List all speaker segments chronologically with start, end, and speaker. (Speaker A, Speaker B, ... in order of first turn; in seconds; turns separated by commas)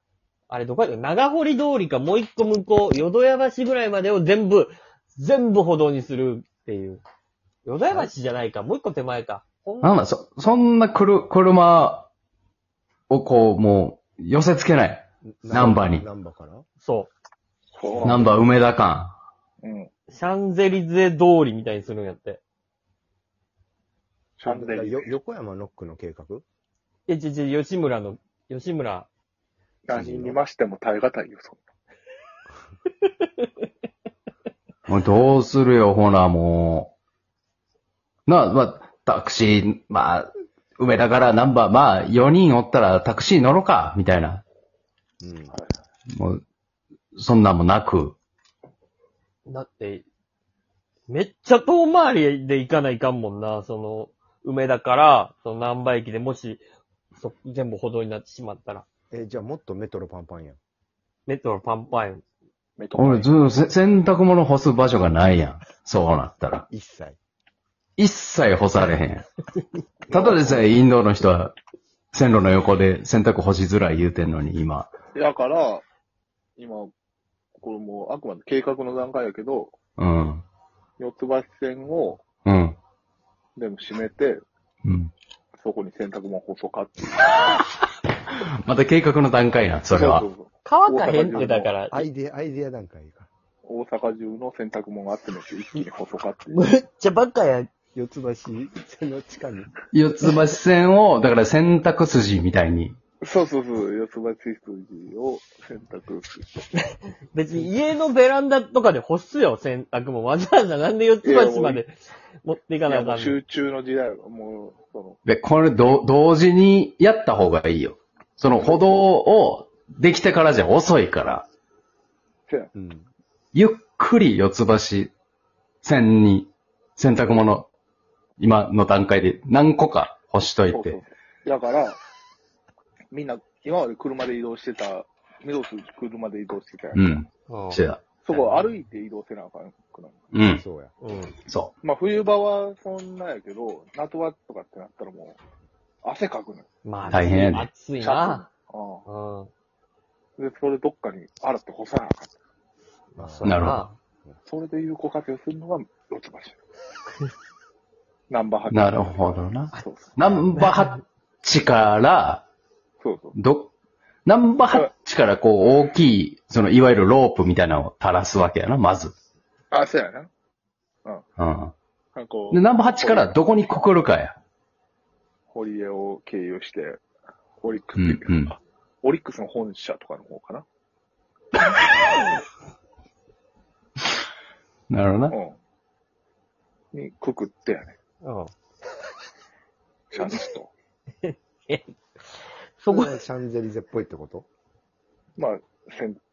Speaker A: 0.5-7.0, Speaker A: 7.6-9.9, Speaker B: 7.8-8.1, Speaker C: 9.8-12.1, Speaker C: 13.1-16.1, Speaker B: 15.2-16.7, Speaker A: 16.8-17.1, Speaker D: 17.8-18.3, Speaker B: 18.0-18.3, Speaker C: 18.0-19.2, Speaker D: 19.6-19.9, Speaker A: 20.1-22.4, Speaker D: 24.4-25.1, Speaker B: 24.4-26.4, Speaker A: 27.1-29.1, Speaker D: 29.9-31.6, Speaker B: 29.9-30.4, Speaker A: 33.0-33.5, Speaker C: 34.9-36.9, Speaker C: 38.3-44.4, Speaker B: 45.2-45.6, Speaker D: 45.5-45.8, Speaker C: 46.1-46.4, Speaker C: 47.2-48.2, Speaker A: 49.5-50.0, Speaker A: 51.1-56.6, Speaker A: 57.2-58.9, Speaker B: 59.1-60.6, Speaker A: 61.3-62.2, Speaker D: 62.8-63.3, Speaker C: 63.0-66.7, Speaker B: 66.7-67.2, Speaker C: 68.0-69.2, Speaker D: 70.1-70.6, Speaker C: 70.1-71.5, Speaker C: 72.1-74.9, Speaker D: 75.2-75.8, Speaker D: 76.6-76.9, Speaker D: 77.6-79.7, Speaker C: 80.0-80.5, Speaker D: 81.0-82.2, Speaker C: 82.5-82.8, Speaker D: 83.6-84.4, Speaker C: 84.8-85.1, Speaker D: 85.6-87.4, Speaker C: 88.4-90.3, Speaker D: 89.9-91.7, Speaker A: 90.7-92.1, Speaker B: 91.9-93.3, Speaker D: 93.7-96.7, Speaker A: 96.5-97.7, Speaker B: 98.0-99.7, Speaker C: 99.9-103.0, Speaker D: 103.2-106.5, Speaker A: 107.3-111.9, Speaker D: 111.2-111.8, Speaker A: 112.4-113.4, Speaker D: 112.9-115.2, Speaker C: 115.3-121.5, Speaker D: 118.5-119.1, Speaker B: 122.8-123.1, Speaker C: 123.5-125.1, Speaker C: 125.8-127.7, Speaker C: 128.4-131.0, Speaker D: 130.7-132.0, Speaker D: 133.1-137.2, Speaker C: 136.9-138.0, Speaker A: 137.5-137.8, Speaker D: 138.2-140.3, Speaker C: 140.3-140.6, Speaker B: 140.5-140.9, Speaker A: 141.0-141.3, Speaker D: 141.8-145.4, Speaker D: 146.0-146.7, Speaker A: 146.8-148.5, Speaker C: 147.1-147.7, Speaker D: 148.0-149.1, Speaker A: 149.1-149.5, Speaker D: 150.4-152.3, Speaker B: 153.1-153.7, Speaker A: 153.2-154.0, Speaker C: 153.4-153.9, Speaker D: 154.5-156.6, Speaker D: 158.3-160.3, Speaker C: 158.7-162.4, Speaker A: 160.6-161.0, Speaker D: 163.0-163.4, Speaker C: 163.4-163.7, Speaker C: 164.2-169.1, Speaker D: 169.7-170.3, Speaker C: 171.4-171.8, Speaker D: 172.2-173.4, Speaker C: 172.5-174.3, Speaker D: 175.5-177.0, Speaker D: 177.6-180.7, Speaker C: 178.0-178.5, Speaker C: 184.9-185.3, Speaker D: 185.3-185.6, Speaker D: 186.9-188.0, Speaker A: 188.2-188.5, Speaker D: 190.1-190.7, Speaker A: 191.2-191.8, Speaker A: 192.8-193.2, Speaker B: 192.9-194.5, Speaker D: 195.4-196.2